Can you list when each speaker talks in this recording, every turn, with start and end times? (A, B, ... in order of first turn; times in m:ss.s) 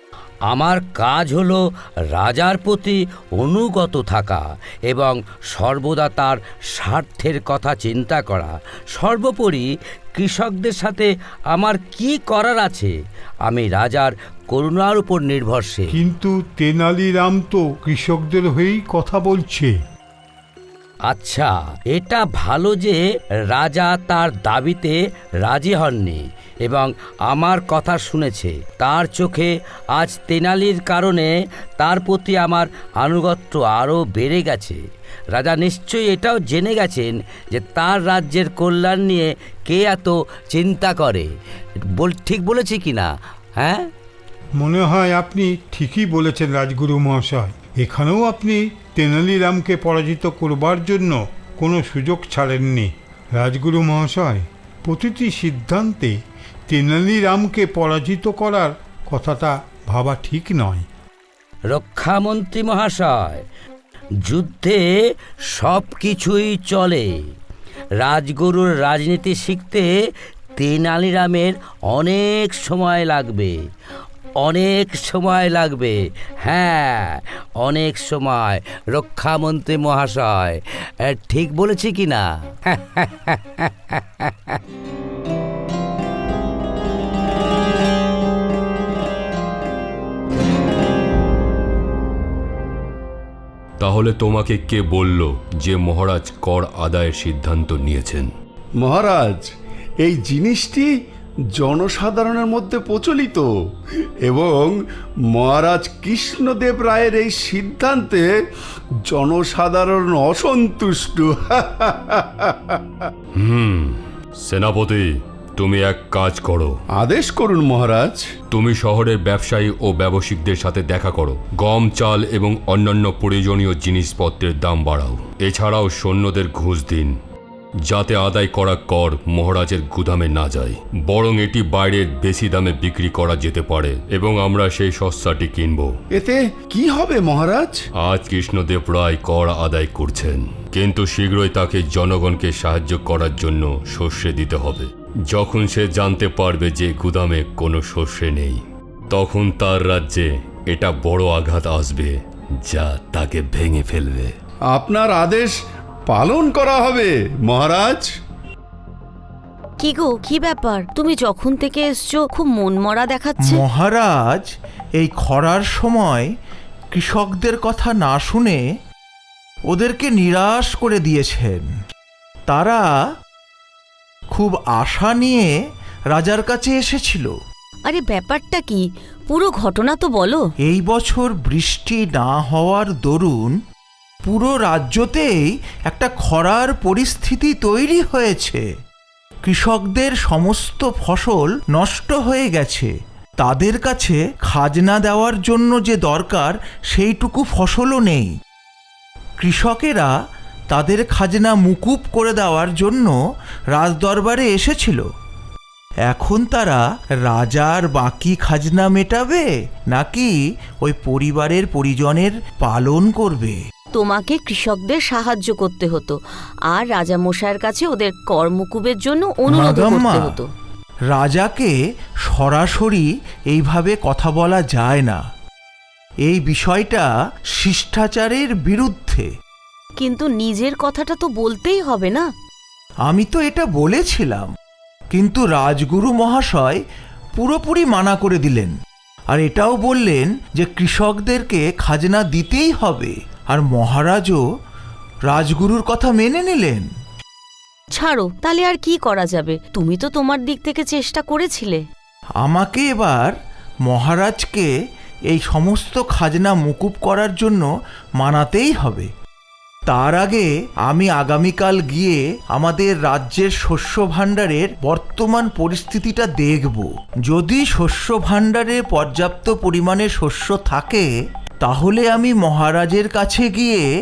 0:00.5-0:12.9 A
0:13.4-0:15.9 A
0:15.9-0:19.8 B
0:21.0-0:34.8 A
0:35.3-0:41.3 A
0:41.9-0:43.9 A
0:44.6-1:00.8 B
1:01.7-1:03.4 A
1:04.2-1:04.8 A
1:05.5-1:07.1 A
1:08.0-1:09.9 A
1:10.6-1:13.6 A
1:14.4-1:24.6 A
1:33.8-1:38.3 C
1:38.8-1:39.5 D
1:40.0-1:40.9 D
1:41.6-1:43.5 D
1:44.2-1:44.8 D
1:45.3-1:48.3 D
1:49.1-1:53.1 D
1:53.4-1:56.7 C
1:57.0-1:58.3 D
1:58.5-2:07.2 C
2:07.8-2:15.9 C
2:16.1-2:17.8 D
2:18.0-2:34.3 C
2:34.7-2:35.5 D
2:36.1-2:38.1 D
2:39.8-2:43.6 E
2:43.4-2:46.3 F
2:46.9-2:48.6 F
2:49.7-2:51.7 F
2:52.5-2:53.1 F
2:54.3-2:55.5 F
2:56.1-2:57.3 F
2:57.8-3:00.5 E
3:00.6-3:03.5 F
3:04.2-3:08.6 F
3:09.4-3:18.3 F
3:19.4-3:20.1 F
3:20.7-3:23.2 F
3:23.7-3:25.0 F
3:26.1-3:33.6 F
3:33.9-3:36.2 E
3:36.7-3:40.5 E
3:39.5-3:40.4 F
3:41.1-3:45.2 F
3:46.2-3:49.3 F
3:50.0-3:52.3 E
3:53.0-3:54.5 F
3:55.1-3:56.8 F
3:57.4-3:58.8 F
3:59.3-4:04.4 F
4:05.3-4:06.9 F
4:07.9-4:11.8 E
4:12.4-4:13.3 F
4:13.9-4:14.7 F
4:15.3-4:17.7 F
4:18.2-4:19.1 F
4:19.9-4:31.1 F
4:31.6-4:33.8 F